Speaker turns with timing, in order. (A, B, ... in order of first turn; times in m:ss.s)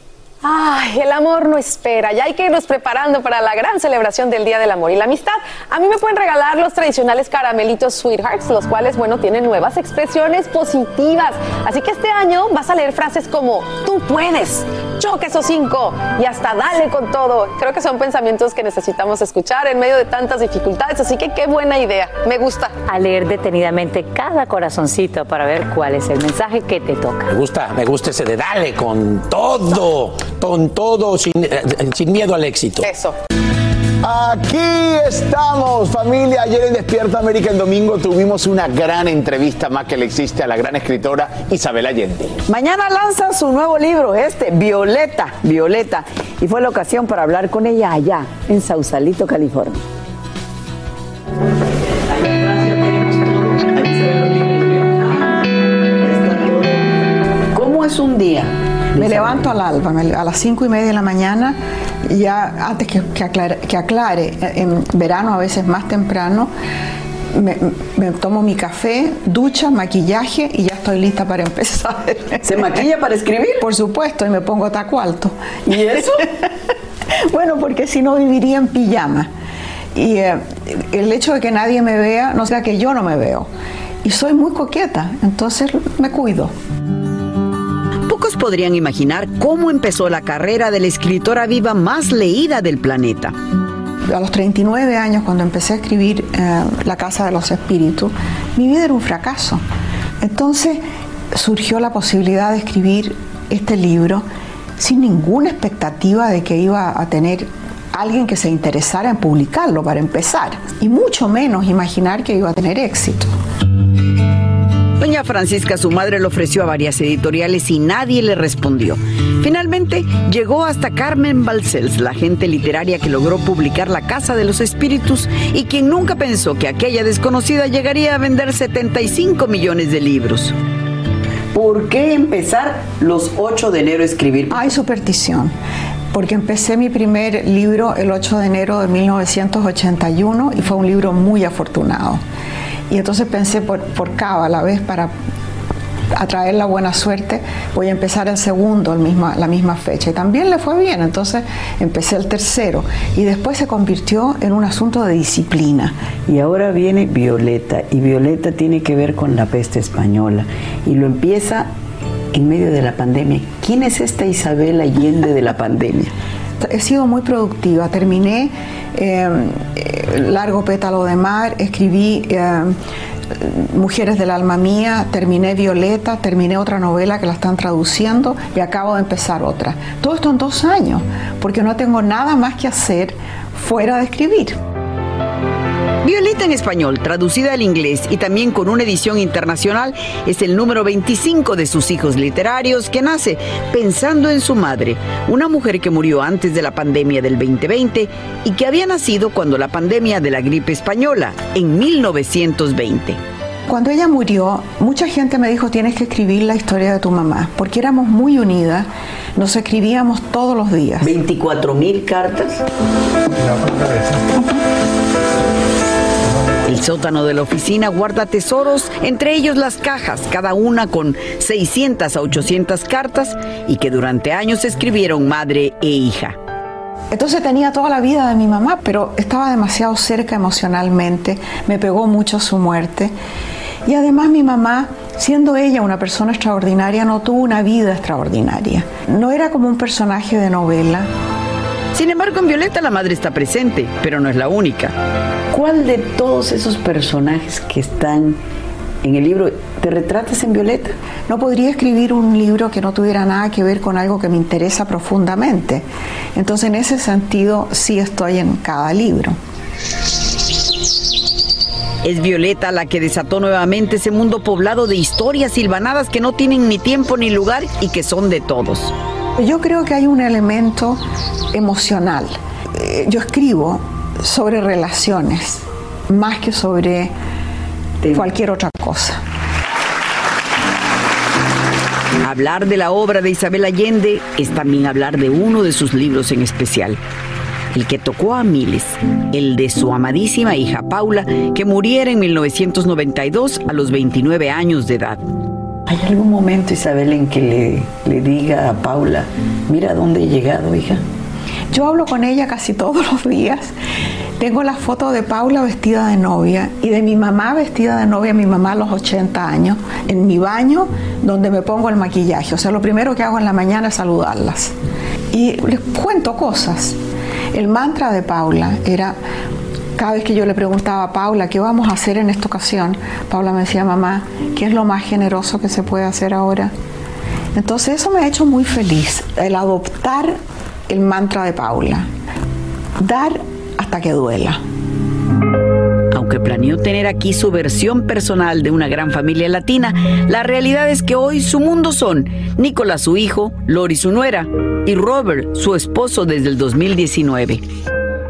0:00.4-0:22.7 A
0:22.8-0:27.3 B
0:27.3-0:32.9 C
0:32.8-0:33.1 A
0:34.0-0:42.4 D
0:42.5-0:49.8 E
0:52.1-0:56.9 E
0:57.5-0:59.5 E
0:59.0-1:06.5 F
1:07.3-1:12.4 F
1:12.4-1:13.6 E
1:13.6-1:16.2 F
1:15.6-1:16.2 E
1:17.3-1:19.3 F
1:19.9-1:23.5 F
1:24.0-1:26.5 F
1:28.1-1:33.3 E
1:34.1-1:39.6 F
1:40.2-1:44.2 F
1:44.8-1:53.3 F
1:55.0-2:10.5 E
2:11.5-2:14.7 E
2:14.5-2:15.5 F
2:16.1-2:22.2 F
2:22.9-2:25.1 F
2:26.1-2:36.0 F
2:36.2-2:41.7 E
2:42.3-2:46.1 E
2:46.6-2:52.7 F
2:53.3-3:04.6 F
3:06.0-3:23.2 E
3:23.7-3:31.1 F
3:31.0-3:32.6 E
3:36.6-3:46.4 E
3:47.1-3:53.1 F
3:53.8-4:01.1 F
4:01.9-4:04.9 E
4:05.5-4:08.4 E
4:09.0-4:10.9 E
4:11.3-4:19.4 F
4:22.0-4:28.9 E
4:29.4-4:31.0 F
4:31.5-4:37.1 F
4:38.0-4:38.3 E
4:38.1-4:39.2 F
4:42.2-4:47.0 E
4:47.7-4:55.2 E
4:55.9-5:01.0 E
5:01.7-5:03.7 F
5:04.4-5:14.7 F
5:15.3-5:17.0 F
5:17.5-5:19.2 F
5:20.0-5:26.7 F
5:27.5-5:30.4 F
5:30.9-5:32.1 F
5:33.0-5:34.6 F
5:36.1-5:47.6 E